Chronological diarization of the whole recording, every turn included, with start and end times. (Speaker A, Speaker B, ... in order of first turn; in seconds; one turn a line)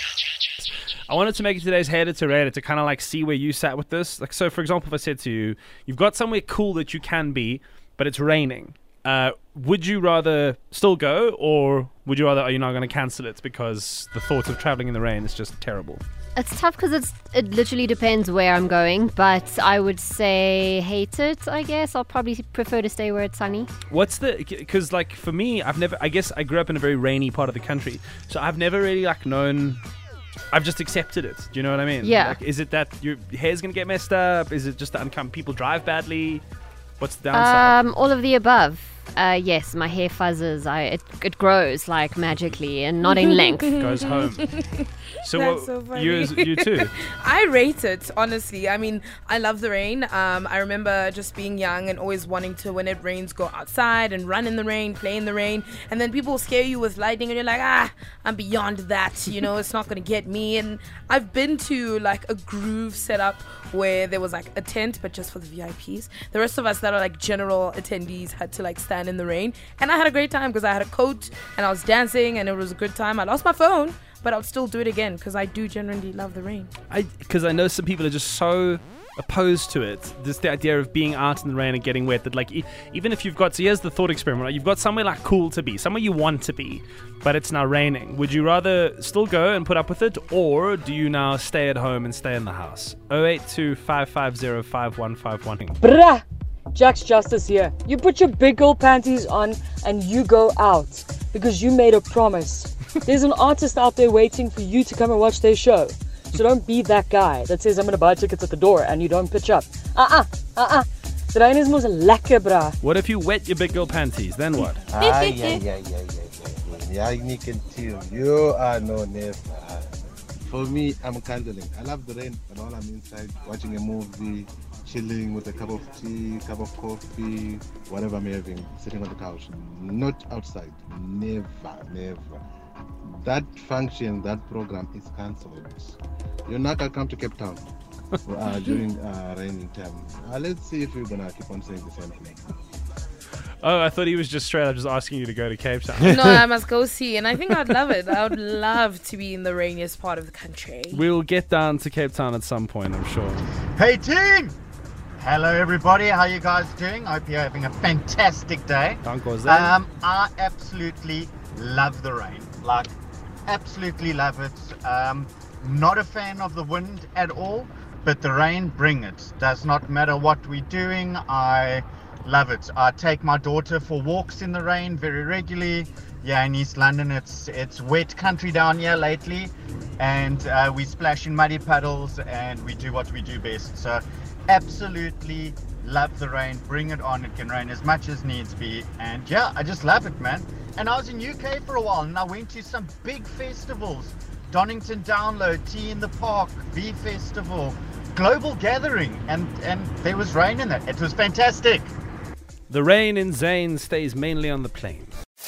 Speaker A: 0.6-16.0
Speaker B: 16.4-23.7
Speaker A: 23.9-29.8
Speaker A: 30.5-36.4
Speaker B: 32.0-32.4
Speaker A: 37.0-37.8
Speaker B: 37.3-43.7
Speaker C: 43.0-76.7
Speaker A: 43.8-44.4
Speaker A: 45.2-46.9
Speaker A: 76.9-95.8
Speaker D: 95.8-112.8
Speaker A: 112.8-114.8
Speaker E: 114.9-119.9
Speaker C: 115.0-115.6
Speaker E: 120.4-132.4
Speaker E: 133.1-137.7
Speaker E: 138.2-142.5
Speaker A: 143.6-146.4
Speaker C: 146.0-151.0
Speaker A: 150.9-153.5
Speaker F: 153.8-154.5
Speaker F: 155.2-162.9
Speaker A: 159.0-159.7
Speaker F: 163.5-201.9
Speaker A: 202.7-205.1